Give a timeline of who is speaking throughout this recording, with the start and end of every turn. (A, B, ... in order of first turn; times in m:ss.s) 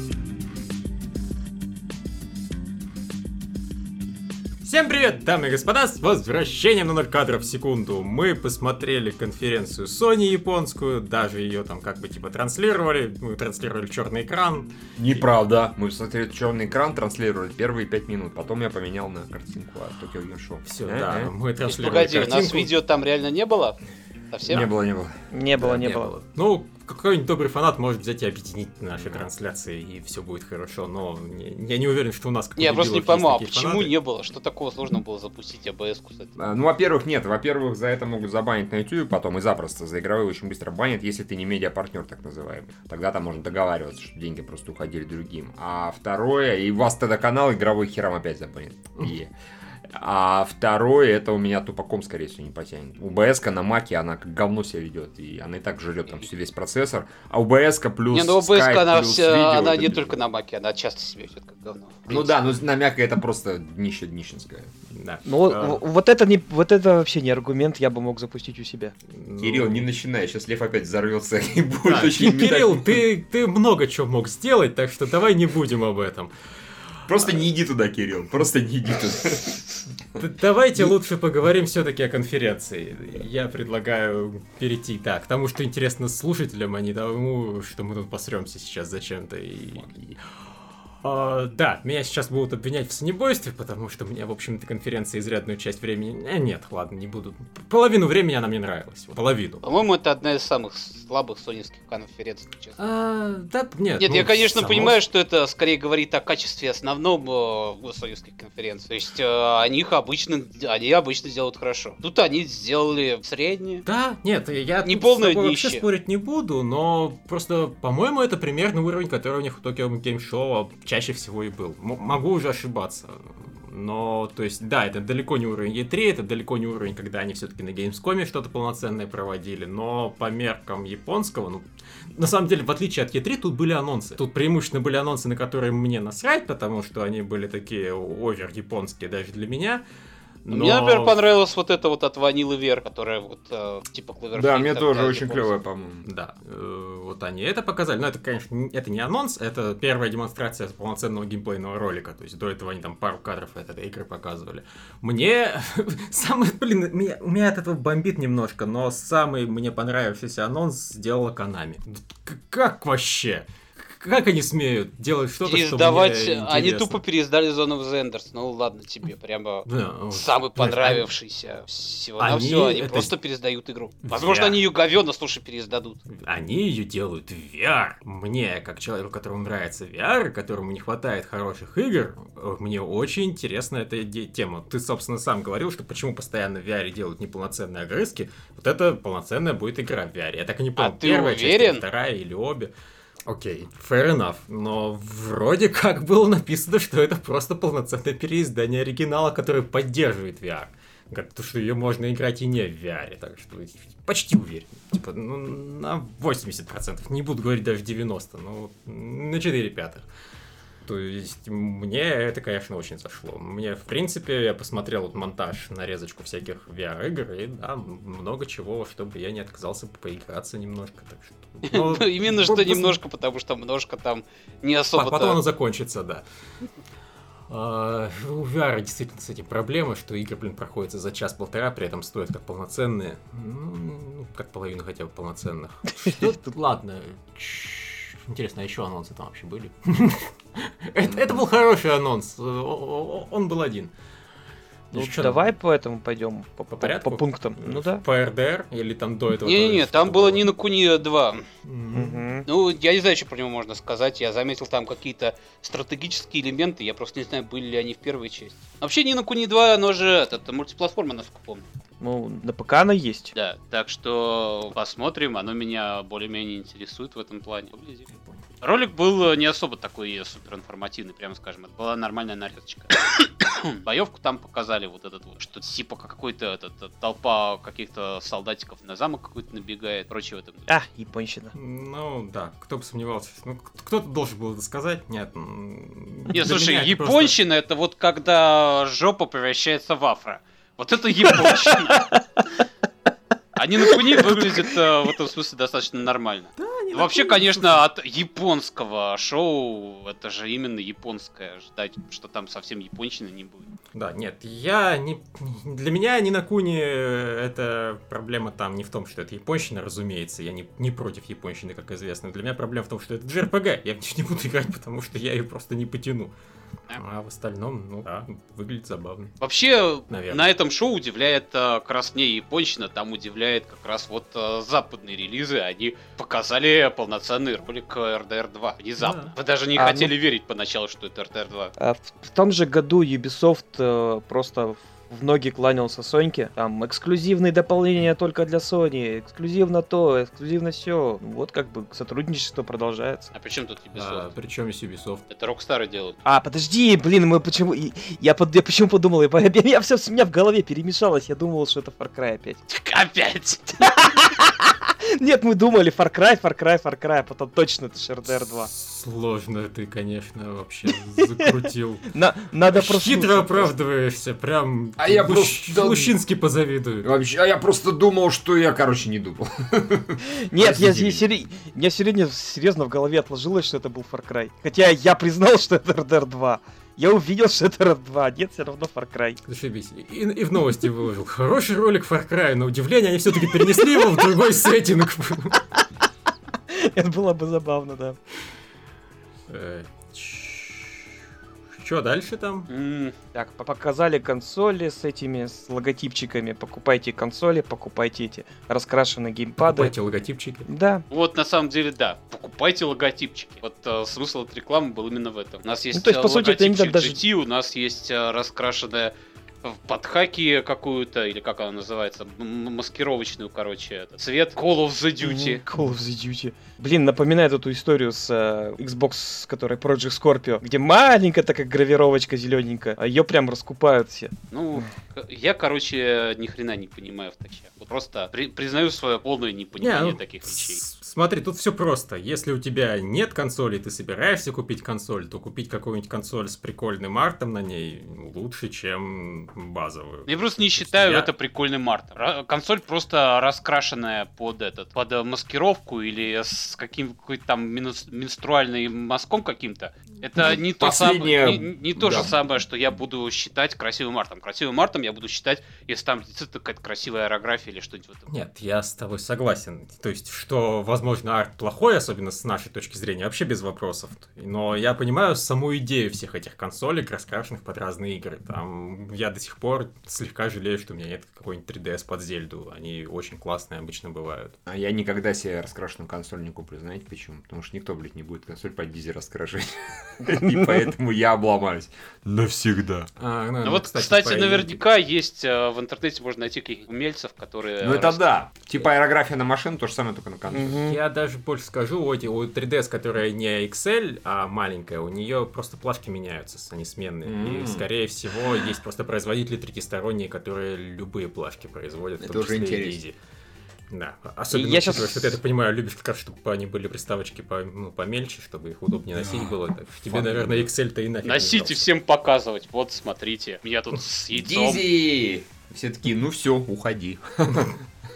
0:04.6-0:15.2 A
0:15.0-0:21.3 B
0:20.6-0:22.7 A
0:21.6-0:23.8 C
0:24.3-0:24.7 C
0:24.5-0:26.2 B
0:25.3-0:26.1 D
0:26.2-0:33.9 A
0:29.0-0:29.2 B
0:32.6-0:36.3 C
0:36.4-0:49.3 B
0:49.8-1:00.2 B
0:58.1-1:02.3 C
1:02.1-1:04.7 B
1:04.9-1:05.8 A
1:05.2-1:08.9 D
1:09.1-1:09.8 A
1:09.4-1:13.0 B
1:11.8-1:16.3 A
1:17.1-1:19.6 B
1:20.2-1:29.8 A
1:29.7-1:30.2 B
1:31.0-1:39.6 A
1:39.6-1:42.8 C
1:42.8-1:45.0 A
1:44.0-1:53.8 C
1:53.8-2:19.8 A
1:54.8-1:55.8 C
2:20.4-2:21.2 A
2:20.5-2:25.5 C
2:24.3-2:26.1 B
2:26.0-2:47.0 A
2:45.4-2:56.0 C
2:49.6-2:51.1 A
2:52.2-2:53.1 A
2:54.0-2:54.6 A
2:56.1-3:12.7 A
3:10.8-3:11.8 C
3:13.2-3:30.0 A
3:30.8-3:43.0 A
3:41.6-3:45.4 C
3:44.9-3:46.2 A
3:47.5-4:03.9 A
4:04.9-4:05.5 A
4:04.9-4:08.0 D
4:06.7-4:10.4 A
4:09.4-4:11.4 C
4:11.6-4:12.2 A
4:11.9-4:12.5 D
4:12.4-4:21.6 C
4:22.0-4:23.3 D
4:23.3-4:40.7 C
4:40.7-4:41.5 D
4:41.5-4:47.4 A
4:46.3-4:52.1 C
4:51.5-4:52.0 D
4:53.6-5:03.7 C
4:53.9-4:54.2 D
4:56.6-4:57.8 A
5:03.9-5:16.3 A
5:16.9-5:19.3 A
5:19.4-5:31.7 C
5:20.1-5:20.5 A
5:29.0-5:29.3 A
5:29.8-5:30.1 D
5:31.8-5:43.3 D
5:43.3-5:44.3 C
5:43.9-5:45.2 A
5:45.3-5:46.2 C
5:46.2-5:52.6 D
5:52.7-5:54.0 C
5:53.8-5:58.7 D
5:58.3-6:02.1 A
6:02.1-6:03.7 D
6:02.7-6:07.1 A
6:05.0-6:06.1 B
6:07.0-6:11.2 B
6:10.2-6:19.4 D
6:19.4-6:25.7 A
6:26.7-6:28.2 D
6:29.5-6:31.1 A
6:31.8-6:32.7 A
6:32.7-6:33.2 C
6:33.3-6:39.9 D
6:39.6-6:40.7 A
6:40.7-6:41.0 D
6:41.1-6:55.6 C
6:45.9-6:47.2 D
6:55.2-7:04.9 D
7:04.5-7:10.8 C
7:09.8-7:21.3 A
7:20.2-7:38.3 C
7:30.4-7:32.3 B
7:38.3-7:54.5 A
7:54.6-8:03.1 B
8:00.3-8:00.6 D
8:03.2-8:04.8 A
8:03.6-8:08.2 C
8:07.8-8:10.8 B
8:10.5-8:11.0 D
8:10.7-8:23.2 A
8:17.2-8:17.9 B
8:22.2-8:23.0 B
8:23.9-8:31.9 A
8:24.5-8:25.4 D
8:29.2-8:29.5 B
8:30.1-8:30.7 B
8:31.2-8:34.8 C
8:34.3-8:37.7 B